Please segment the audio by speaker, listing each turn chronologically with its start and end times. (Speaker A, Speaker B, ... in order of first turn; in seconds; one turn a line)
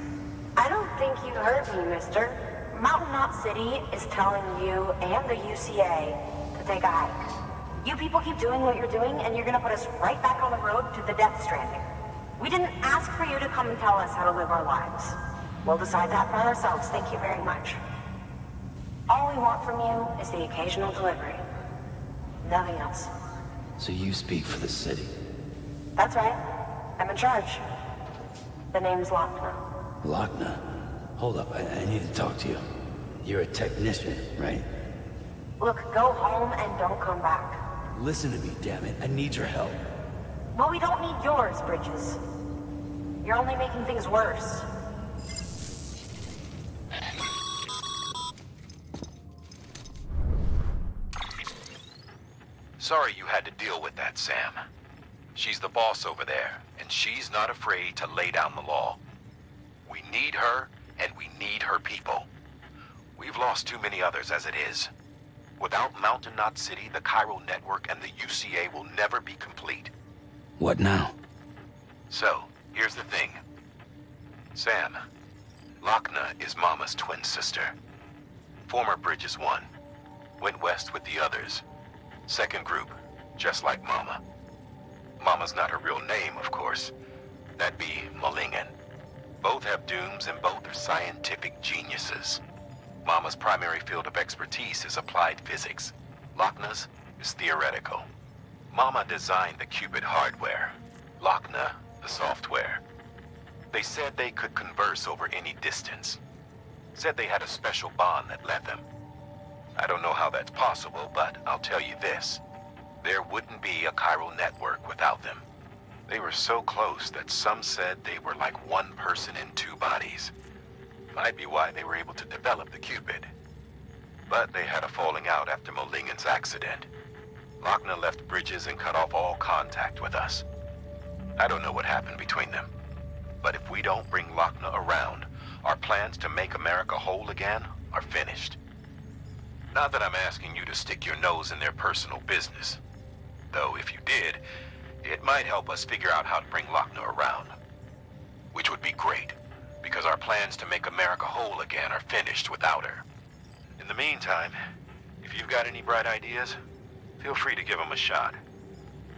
Speaker A: 0.6-7.3
Speaker A: 7.8-11.9
Speaker A: 12.4-17.8
Speaker A: 19.1-21.4
Speaker A: 22.4-23.1
Speaker B: 23.8-25.1
Speaker A: 25.9-26.4
Speaker A: 27.0-27.6
Speaker A: 28.7-29.6
Speaker B: 30.0-30.6
Speaker B: 31.1-32.6
Speaker B: 33.2-34.6
Speaker A: 35.6-37.6
Speaker B: 37.9-39.8
Speaker A: 40.5-42.2
Speaker A: 43.2-44.7
Speaker C: 52.8-54.6
Speaker C: 55.3-59.0
Speaker C: 59.9-62.3
Speaker C: 63.1-64.9
Speaker C: 65.6-69.9
Speaker B: 70.6-71.2
Speaker C: 72.1-73.4
Speaker C: 74.5-75.0
Speaker C: 75.8-77.7
Speaker C: 78.7-79.7
Speaker C: 80.4-81.6
Speaker C: 82.3-84.2
Speaker C: 85.2-86.9
Speaker C: 87.6-88.7
Speaker C: 89.4-92.4
Speaker C: 93.0-98.1
Speaker C: 98.7-102.8
Speaker C: 103.7-106.2
Speaker C: 106.9-108.8
Speaker C: 109.8-112.4
Speaker C: 113.0-115.5
Speaker C: 116.1-120.3
Speaker C: 121.1-123.3
Speaker C: 124.3-126.9
Speaker C: 127.6-130.4
Speaker C: 131.4-132.7
Speaker C: 133.4-138.6
Speaker C: 139.7-142.8
Speaker C: 143.5-144.4
Speaker C: 145.0-147.5
Speaker C: 148.5-153.0
Speaker C: 153.8-154.6
Speaker C: 155.2-156.6
Speaker C: 157.2-158.4